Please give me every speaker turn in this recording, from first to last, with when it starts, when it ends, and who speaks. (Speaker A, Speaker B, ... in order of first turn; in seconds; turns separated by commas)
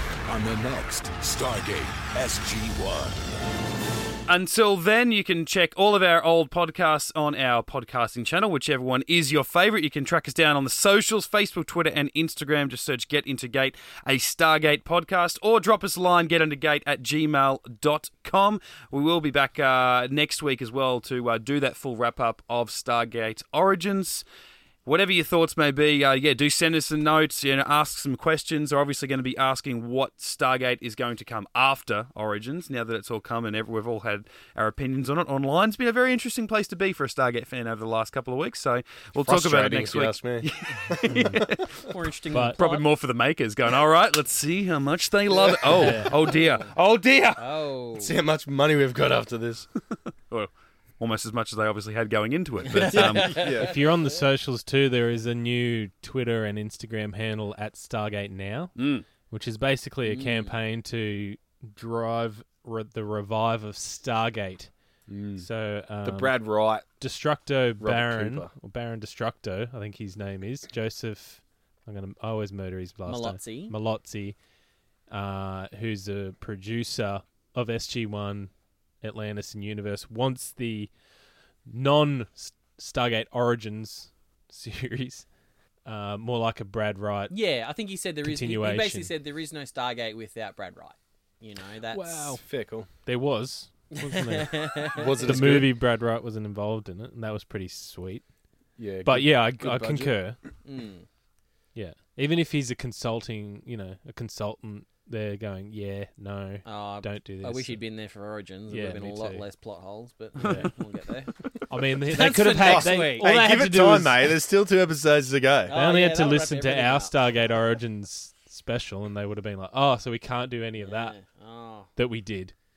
Speaker A: 0.3-3.2, Speaker B: 4.3-24.2, Speaker B: 24.9-41.9, Speaker C: 39.1-41.5, Speaker D: 41.1-41.5, Speaker E: 41.9-42.9, Speaker D: 42.3-42.6, Speaker B: 42.6-47.4, Speaker C: 45.3-46.0, Speaker D: 45.8-46.2, Speaker E: 46.4-46.7, Speaker E: 47.4-48.1, Speaker C: 48.0-49.7, Speaker B: 50.3-53.4, Speaker E: 52.7-53.8, Speaker C: 52.9-53.8, Speaker D: 53.4-58.8, Speaker B: 58.8-59.1, Speaker D: 59.3-64.7, Speaker E: 60.0-60.5, Speaker C: 65.1-65.5, Speaker D: 65.4-74.4, Speaker C: 66.0-66.9, Speaker C: 67.8-68.5, Speaker E: 73.1-73.8, Speaker D: 75.1-80.9, Speaker D: 81.7-85.3, Speaker D: 85.9-87.3, Speaker E: 87.3-92.4, Speaker D: 88.2-89.1, Speaker D: 91.9-92.4, Speaker C: 92.4-92.9, Speaker D: 93.0-98.2, Speaker E: 94.0-95.7, Speaker C: 94.9-95.8, Speaker C: 98.8-100.2, Speaker D: 99.0-100.4, Speaker E: 100.6-101.1, Speaker D: 101.8-107.8, Speaker E: 106.7-111.3, Speaker D: 108.7-109.5, Speaker D: 110.4-110.7, Speaker D: 111.7-114.4, Speaker E: 112.0-113.4, Speaker C: 112.4-115.7, Speaker E: 115.7-117.2, Speaker D: 115.7-121.2, Speaker E: 120.8-121.9, Speaker D: 122.0-122.5